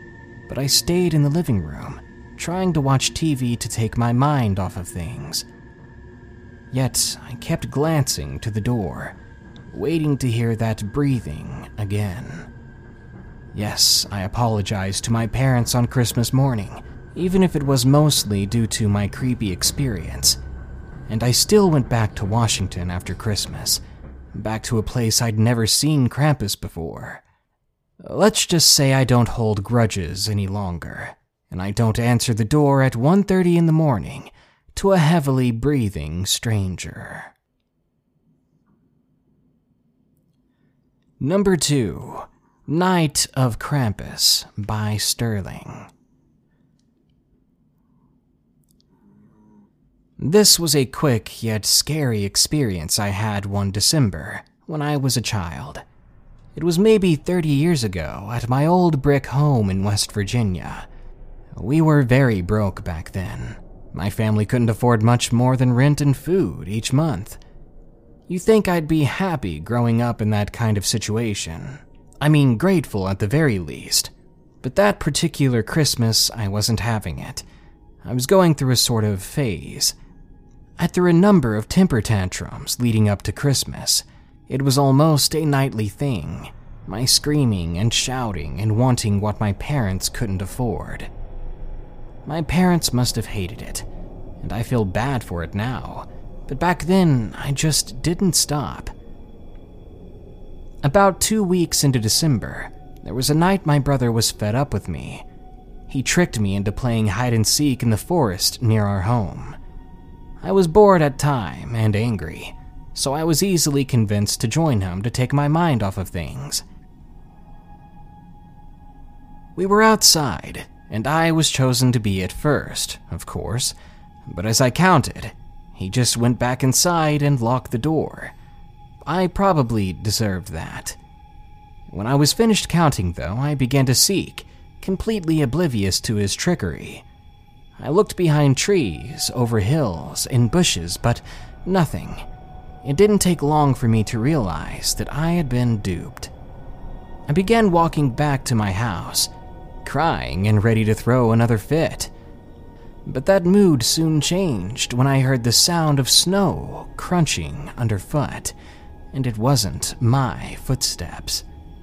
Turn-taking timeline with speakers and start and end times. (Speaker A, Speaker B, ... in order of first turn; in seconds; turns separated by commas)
Speaker A: 0.5-5.5, Speaker A: 6.7-9.2, Speaker A: 9.7-12.5, Speaker A: 13.5-20.4, Speaker A: 21.1-23.8, Speaker A: 24.3-27.2, Speaker A: 28.0-37.3, Speaker A: 41.2-45.9, Speaker A: 50.2-55.8, Speaker A: 56.5-60.9, Speaker A: 61.5-67.4, Speaker A: 68.3-74.1, Speaker A: 74.6-77.4, Speaker A: 78.0-79.9, Speaker A: 80.8-91.1, Speaker A: 92.2-93.9, Speaker A: 94.4-98.9, Speaker A: 100.8-105.2, Speaker A: 105.9-109.6, Speaker A: 110.4-116.6, Speaker A: 119.5-123.7, Speaker A: 124.3-128.3, Speaker A: 129.1-131.0, Speaker A: 131.9-137.0, Speaker A: 137.8-142.2, Speaker A: 142.8-146.3, Speaker A: 147.3-149.3, Speaker A: 149.8-152.1, Speaker A: 153.1-158.5, Speaker A: 159.1-161.4